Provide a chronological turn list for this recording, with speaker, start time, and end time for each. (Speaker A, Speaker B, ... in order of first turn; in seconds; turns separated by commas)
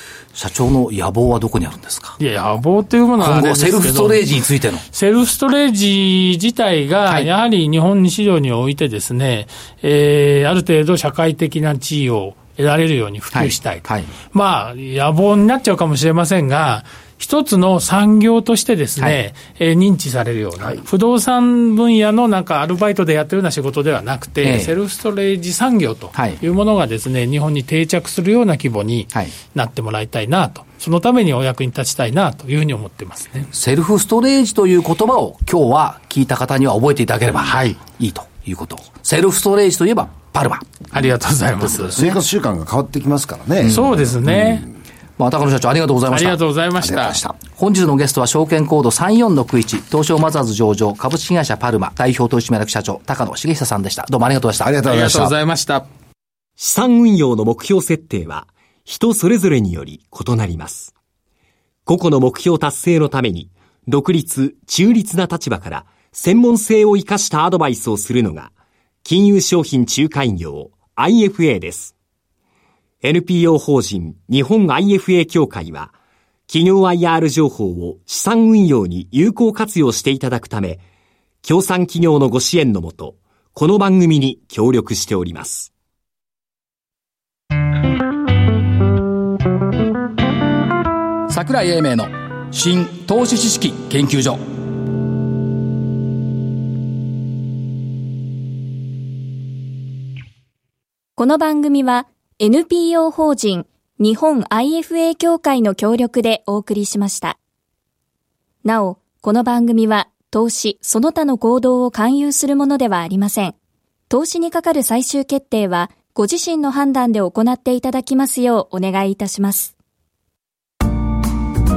Speaker A: 0.3-2.2, Speaker B: 2.2-4.4, Speaker A: 3.2-4.8, Speaker B: 4.9-33.5, Speaker A: 13.3-14.1, Speaker A: 24.4-24.7, Speaker A: 26.1-26.4, Speaker A: 33.5-40.8, Speaker B: 37.4-37.8, Speaker B: 40.9-42.1, Speaker A: 41.6-42.1, Speaker C: 41.9-44.6, Speaker A: 43.6-43.9, Speaker B: 43.6-44.7, Speaker A: 45.2-46.4, Speaker B: 46.1-47.2, Speaker C: 46.8-47.4, Speaker A: 47.5-54.8, Speaker C: 54.6-55.3, Speaker B: 54.8-55.9, Speaker D: 56.6-60.9, Speaker D: 61.9-68.5, Speaker D: 69.0-71.9, Speaker D: 73.0-75.9, Speaker D: 76.5-80.8, Speaker D: 81.4-85.7, Speaker A: 91.3-94.4, Speaker E: 101.2-107.4, Speaker E: 108.6-113.5, Speaker E: 114.1-119.7